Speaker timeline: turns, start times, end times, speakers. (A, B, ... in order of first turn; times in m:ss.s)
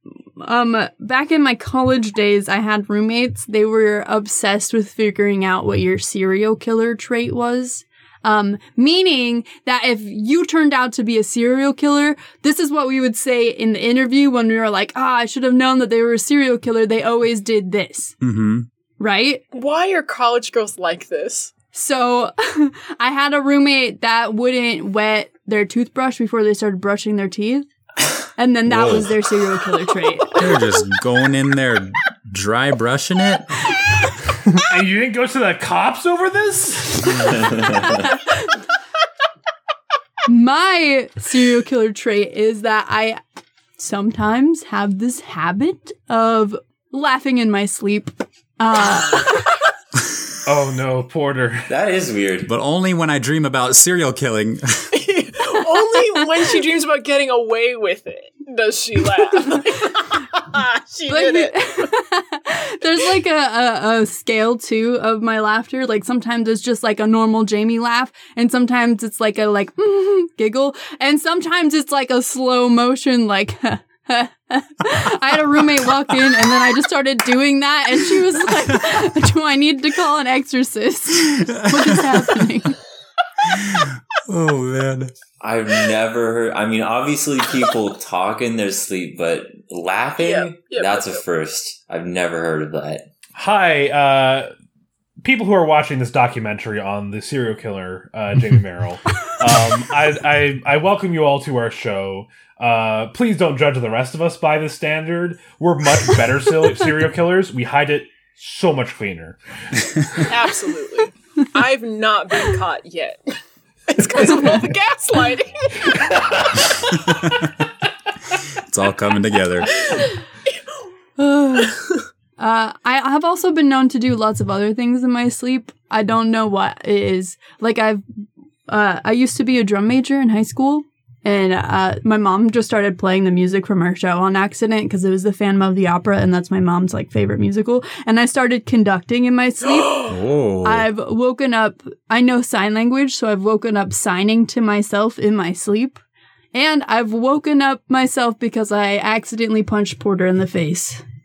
0:00.4-0:18.2 A
0:18.2-0:18.7 B
0:19.0-0:19.4 A
0:19.5-0:21.5 C
0:21.7-0:27.7 A
0:28.4-0:30.4 A
0:28.7-0:29.1 B
0:30.3-0:33.7 B
0:34.7-0:37.3 D
0:37.3-0:38.0 E
0:40.3-0:43.2 A
0:43.8-0:49.6 A
0:50.5-0:51.7 D
0:51.7-0:52.5 E
0:52.5-0:54.9 B
0:54.9-1:01.7 C
1:01.1-1:22.8 A
1:21.3-1:22.4 B
1:23.5-1:25.1 B
1:25.4-1:33.1 E
1:30.2-1:31.2 C
1:33.4-1:34.5 D
1:35.2-1:49.4 D
1:50.2-1:53.3 C
1:53.9-1:56.3 C
1:55.9-1:56.6 D
1:57.1-1:57.5 B
1:58.4-1:59.7 B
1:59.7-2:00.1 C
2:01.2-2:01.9 A
2:02.4-2:08.0 A
2:08.7-2:26.0 A
2:20.0-2:20.9 B
2:26.5-2:31.0 A